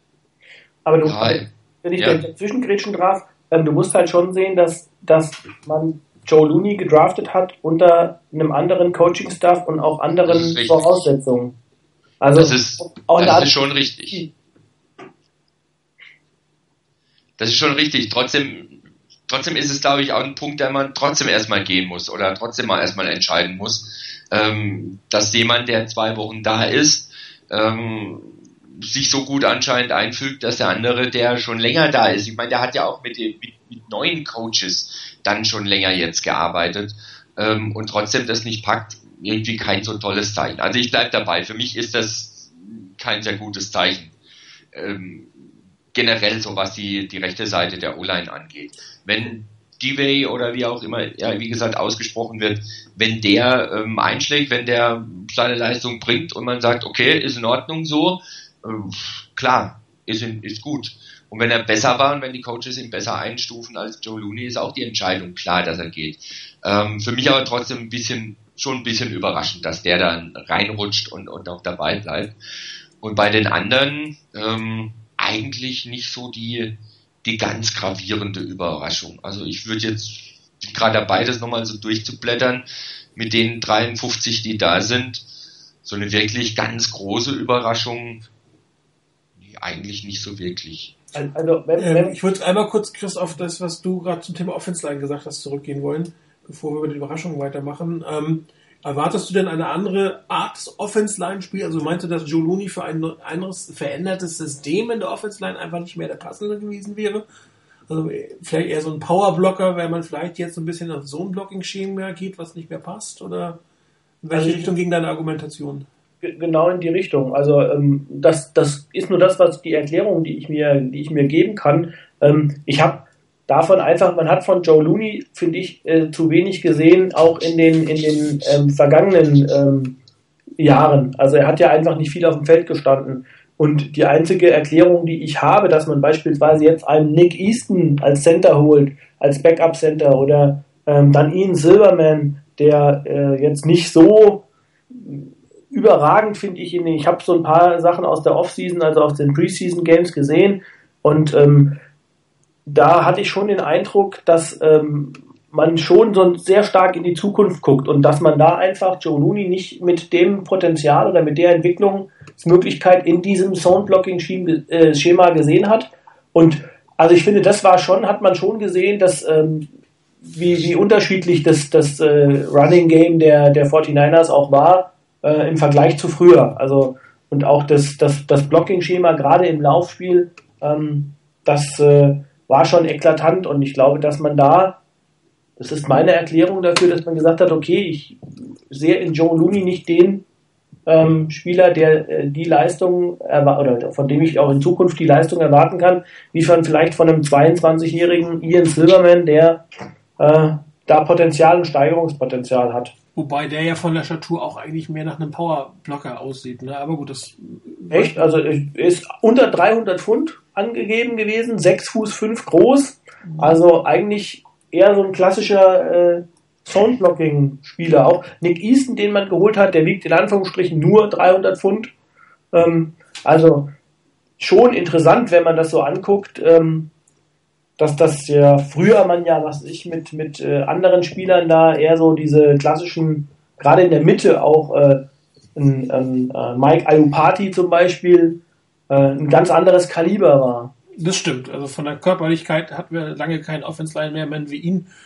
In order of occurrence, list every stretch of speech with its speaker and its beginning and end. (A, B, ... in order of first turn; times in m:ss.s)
0:00.8-0:11.5 A
0:01.0-0:02.2 B
0:10.3-0:10.8 B
0:12.2-0:13.5 A
0:12.4-0:14.2 B
0:17.4-0:44.1 B
0:44.7-1:12.3 B
1:13.0-1:22.6 B
1:23.1-1:25.2 B
1:25.8-1:28.2 B
1:29.4-1:30.9 B
1:31.1-1:32.2 A
1:31.8-1:47.2 C
1:47.9-1:53.6 C
1:54.2-1:55.9 C
1:54.3-1:54.7 A
1:56.2-2:10.0 A
2:10.6-2:31.8 A
2:32.6-2:49.7 A
2:50.2-3:04.8 A
3:05.6-3:10.2 A
3:10.8-3:19.6 A
3:20.2-3:22.9 A
3:23.1-3:28.2 C
3:27.9-3:41.9 A
3:33.2-3:33.6 C
3:42.5-3:43.7 A
3:44.4-3:46.9 A
3:47.8-4:00.7 A
4:01.0-4:04.9 C